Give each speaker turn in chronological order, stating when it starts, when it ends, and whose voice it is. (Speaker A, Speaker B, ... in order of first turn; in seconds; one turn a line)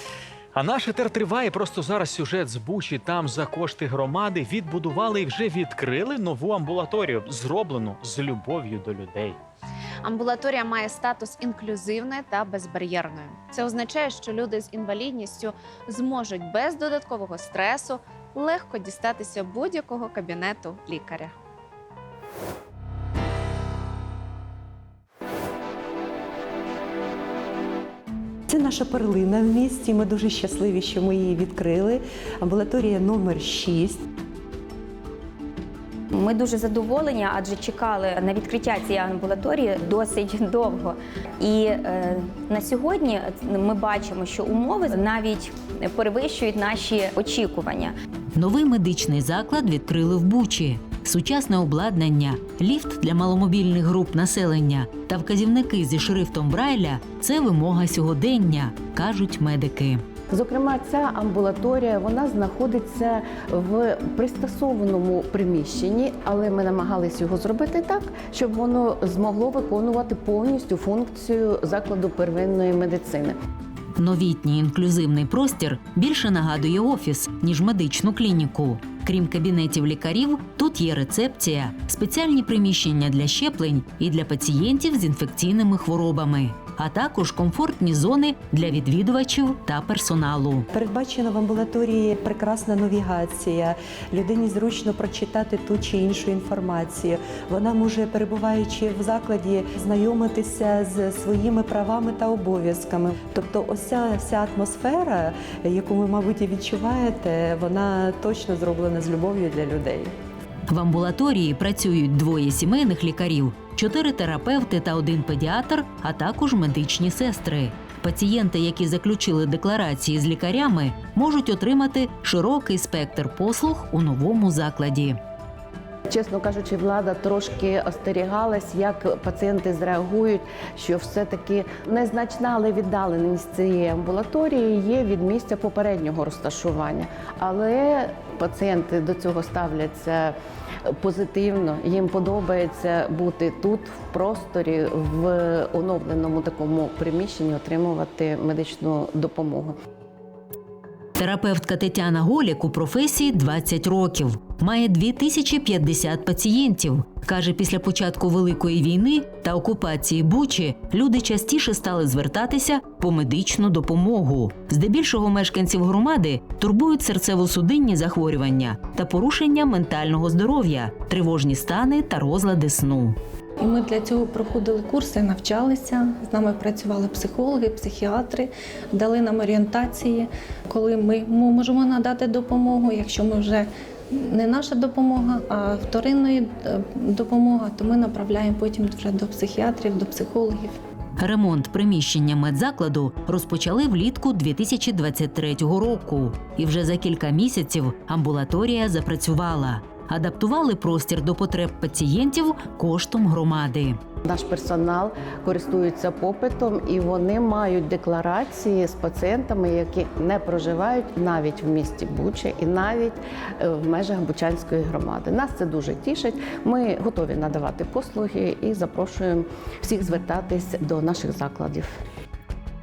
Speaker A: 0.6-9.4
Speaker B: 10.0-21.3
Speaker C: 28.5-34.0
Speaker D: 36.1-47.9
Speaker E: 48.4-60.0
Speaker F: 60.3-73.3
Speaker E: 74.0-90.7
Speaker C: 90.7-110.1
Speaker E: 110.7-125.2
Speaker F: 126.1-140.3
Speaker F: 140.9-149.8
Speaker E: 151.2-173.2
Speaker G: 173.6-190.8
Speaker E: 191.2-204.0
Speaker F: 204.2-222.0